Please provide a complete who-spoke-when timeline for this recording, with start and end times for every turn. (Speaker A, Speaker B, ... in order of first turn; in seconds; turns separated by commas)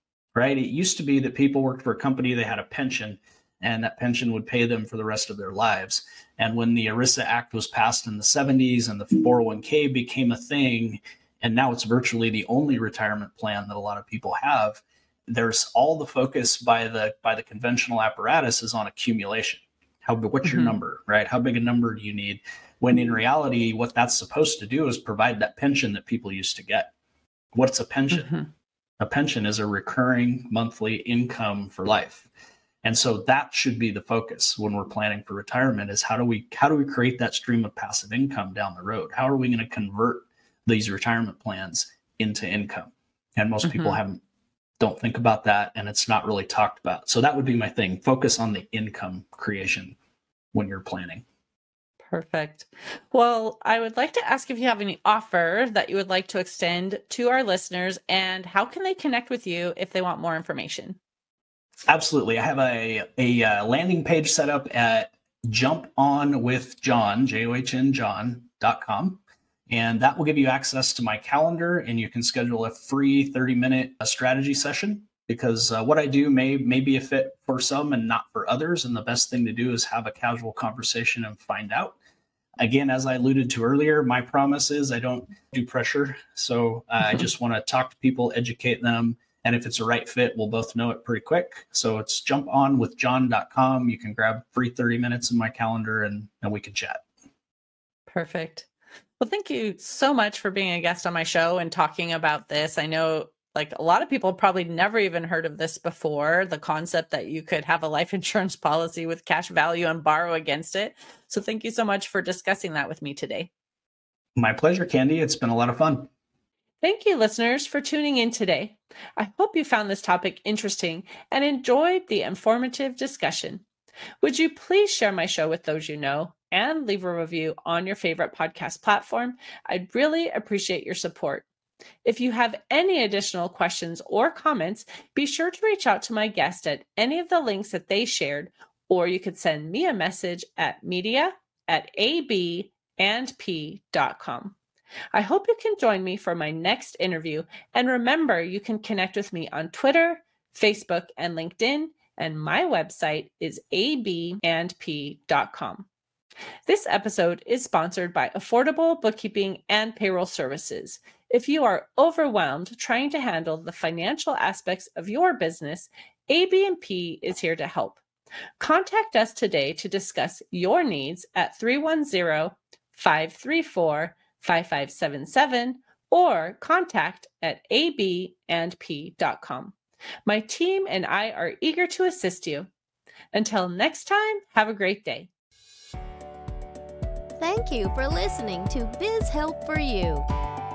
Speaker A: 0.3-26.9, Speaker B: 20.5-20.7, Speaker A: 27.5-28.3, Speaker B: 28.1-28.5, Speaker A: 29.0-32.3, Speaker A: 32.8-44.2, Speaker B: 43.6-44.0, Speaker A: 44.8-50.0, Speaker A: 50.5-51.2, Speaker B: 52.1-61.0, Speaker A: 61.9-82.0, Speaker A: 82.6-97.0, Speaker B: 98.1-98.7, Speaker B: 99.2-113.5, Speaker A: 114.4-116.1, Speaker B: 116.8-123.6, Speaker B: 124.2-131.4, Speaker B: 132.0-144.5, Speaker B: 145.1-155.9, Speaker B: 156.7-168.0, Speaker B: 168.6-179.7, Speaker B: 180.2-182.7, Speaker B: 183.3-185.3, Speaker C: 187.4-190.2